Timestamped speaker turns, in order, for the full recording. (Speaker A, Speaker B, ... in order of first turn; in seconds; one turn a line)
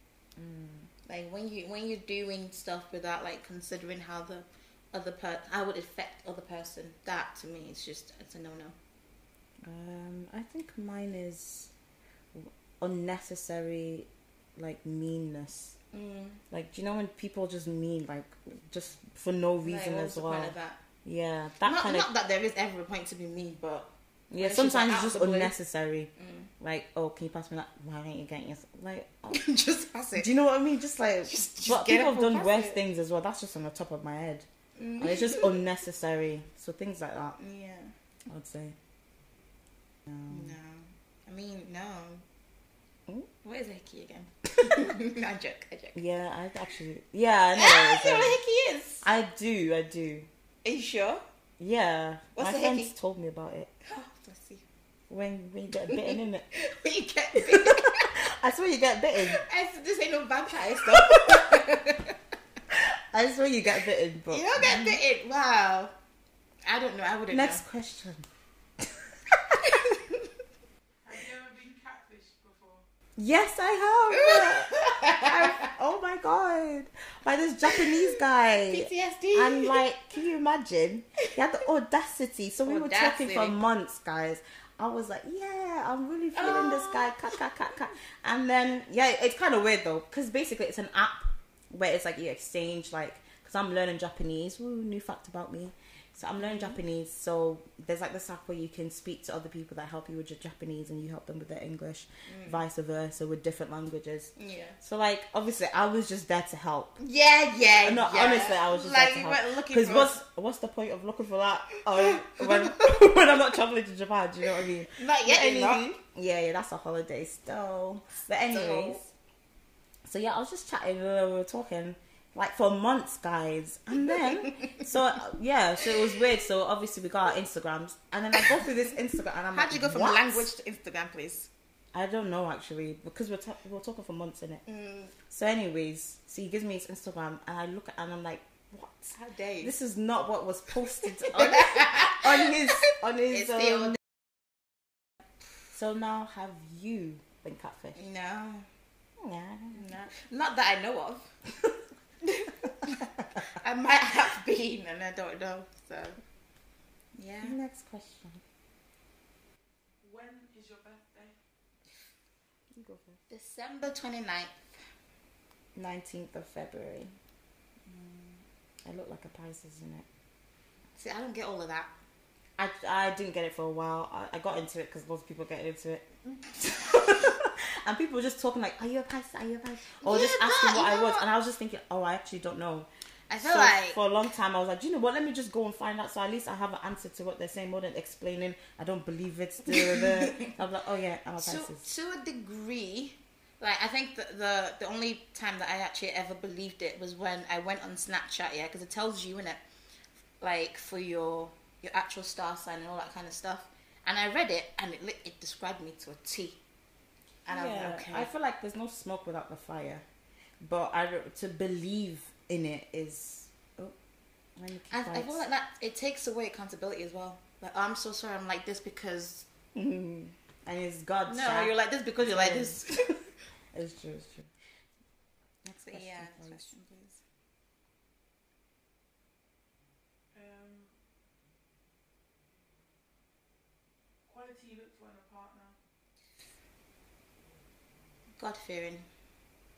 Speaker A: 0.4-0.9
Speaker B: 1.1-8.8
Speaker A: 9.6-11.7
Speaker A: 12.3-15.8
Speaker B: 15.9-16.4
Speaker A: 16.5-22.1
Speaker B: 19.6-20.8
Speaker B: 21.6-25.5
Speaker A: 24.3-29.4
Speaker B: 26.2-26.5
Speaker B: 29.3-30.3
Speaker A: 30.1-34.5
Speaker B: 31.2-32.8
Speaker B: 34.8-35.6
Speaker A: 35.0-37.4
Speaker B: 37.4-37.9
Speaker A: 38.3-38.8
Speaker A: 40.1-40.4
Speaker B: 40.3-42.2
Speaker B: 43.4-46.0
Speaker A: 45.9-48.4
Speaker B: 47.5-49.0
Speaker A: 49.0-50.3
Speaker B: 50.6-51.2
Speaker A: 51.6-53.7
Speaker B: 52.4-52.9
Speaker B: 53.8-54.6
Speaker A: 55.1-56.5
Speaker B: 55.9-58.1
Speaker A: 57.3-59.4
Speaker B: 59.2-62.2
Speaker A: 60.9-61.4
Speaker A: 62.7-65.0
Speaker B: 64.3-65.9
Speaker B: 66.6-67.6
Speaker A: 67.3-68.2
Speaker B: 69.6-70.3
Speaker C: 71.0-72.8
Speaker A: 73.2-107.0
Speaker B: 74.1-75.7
Speaker B: 78.7-79.8
Speaker B: 82.7-83.6
Speaker B: 86.3-87.3
Speaker B: 96.4-96.8
Speaker B: 102.2-102.6
Speaker B: 104.3-104.8
Speaker B: 107.0-110.2
Speaker A: 107.8-119.1
Speaker B: 111.9-113.1
Speaker B: 114.6-115.9
Speaker B: 118.5-119.0
Speaker A: 120.0-130.5
Speaker B: 124.0-124.8
Speaker B: 129.5-131.5
Speaker A: 131.9-134.6
Speaker B: 134.7-135.1
Speaker A: 135.3-144.0
Speaker B: 139.1-139.7
Speaker B: 141.1-144.0
Speaker A: 145.7-148.0
Speaker B: 147.9-148.7
Speaker A: 149.2-149.8
Speaker B: 149.7-151.3
Speaker B: 152.2-156.2
Speaker B: 157.2-157.6
Speaker A: 157.4-158.4
Speaker C: 160.0-161.3
Speaker A: 162.7-163.2
Speaker B: 163.3-164.6
Speaker A: 165.8-167.1
Speaker B: 167.9-168.4
Speaker A: 168.8-170.1
Speaker B: 170.9-171.9
Speaker A: 172.6-182.9
Speaker B: 180.0-181.3
Speaker B: 183.3-184.0
Speaker A: 183.4-191.8
Speaker B: 189.7-190.5
Speaker B: 191.4-199.6
Speaker B: 200.4-206.6
Speaker B: 207.4-208.3
Speaker A: 207.5-210.0
Speaker A: 210.6-213.9
Speaker A: 214.6-215.4
Speaker B: 214.9-219.5
Speaker A: 219.7-222.8
Speaker B: 221.3-223.1
Speaker A: 223.7-224.5
Speaker A: 225.7-226.7
Speaker B: 225.7-227.2
Speaker C: 230.3-230.9
Speaker C: 234.2-235.8
Speaker B: 238.4-239.1